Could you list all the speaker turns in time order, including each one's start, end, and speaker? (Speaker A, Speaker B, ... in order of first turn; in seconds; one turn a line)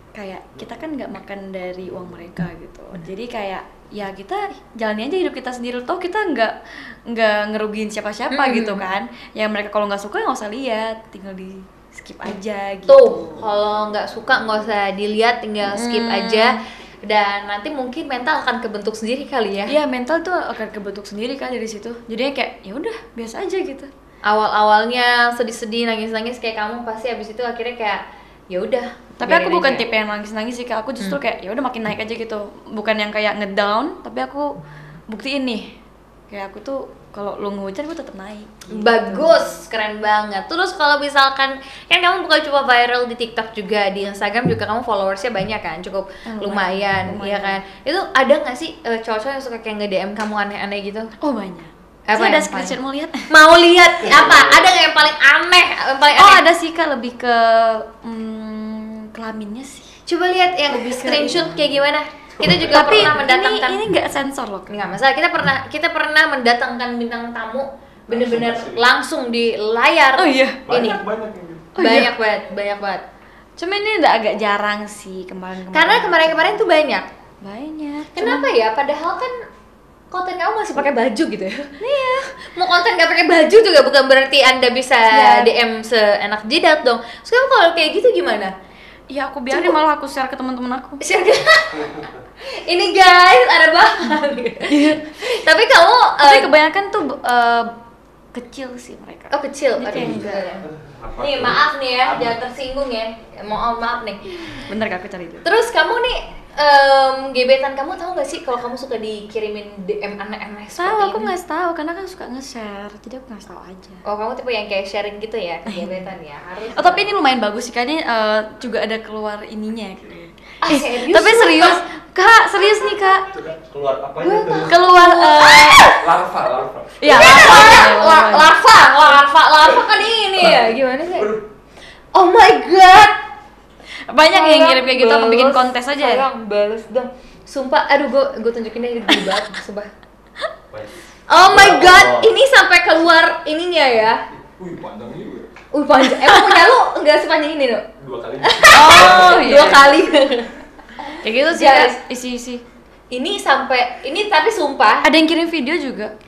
Speaker A: 0.1-13.3
Speaker B: 8.3-8.8
Speaker B: 12.9-19.8
Speaker A: 15.7-16.6
Speaker A: 19.7-23.9
Speaker B: 24.2-29.9
Speaker A: 29.2-34.6
Speaker A: 35.1-35.8
Speaker A: 36.3-39.6
Speaker B: 38.7-51.1
Speaker A: 46.3-47.6
Speaker A: 51.2-53.3
Speaker B: 52.1-52.8
Speaker B: 53.3-56.5
Speaker A: 56.1-60.0
Speaker B: 60.1-63.8
Speaker A: 60.7-61.4
Speaker A: 62.6-64.8
Speaker B: 64.7-71.0
Speaker C: 68.2-68.8
Speaker A: 70.2-70.6
Speaker C: 70.7-71.7
Speaker A: 71.8-72.1
Speaker B: 71.8-73.0
Speaker A: 73.6-76.5
Speaker B: 75.7-77.1
Speaker A: 77.4-78.5
Speaker B: 78.2-79.3
Speaker B: 80.1-81.7
Speaker A: 81.8-82.3
Speaker B: 82.4-88.5
Speaker A: 85.1-85.5
Speaker A: 89.1-91.0
Speaker B: 89.5-89.8
Speaker B: 91.0-96.5
Speaker A: 94.7-95.1
Speaker A: 96.2-97.8
Speaker A: 98.3-100.5
Speaker B: 99.3-104.3
Speaker C: 101.0-101.6
Speaker A: 104.5-105.5
Speaker B: 105.4-111.3
Speaker A: 110.8-114.0
Speaker B: 114.0-117.1
Speaker A: 115.7-116.1
Speaker A: 116.7-123.3
Speaker B: 120.6-121.8
Speaker C: 123.3-124.8
Speaker B: 124.2-126.1
Speaker A: 124.6-125.9
Speaker C: 126.0-127.0
Speaker A: 127.0-128.5
Speaker B: 127.0-131.4
Speaker B: 132.1-133.2
Speaker A: 134.1-136.3
Speaker B: 134.3-139.9
Speaker B: 141.3-144.2
Speaker C: 141.4-142.3
Speaker C: 144.6-145.5
Speaker B: 145.7-147.9
Speaker A: 146.0-146.6
Speaker C: 148.0-149.8
Speaker B: 148.4-150.5
Speaker A: 148.7-150.0
Speaker A: 151.2-152.6
Speaker B: 151.5-152.0
Speaker B: 153.1-155.1
Speaker A: 155.0-156.1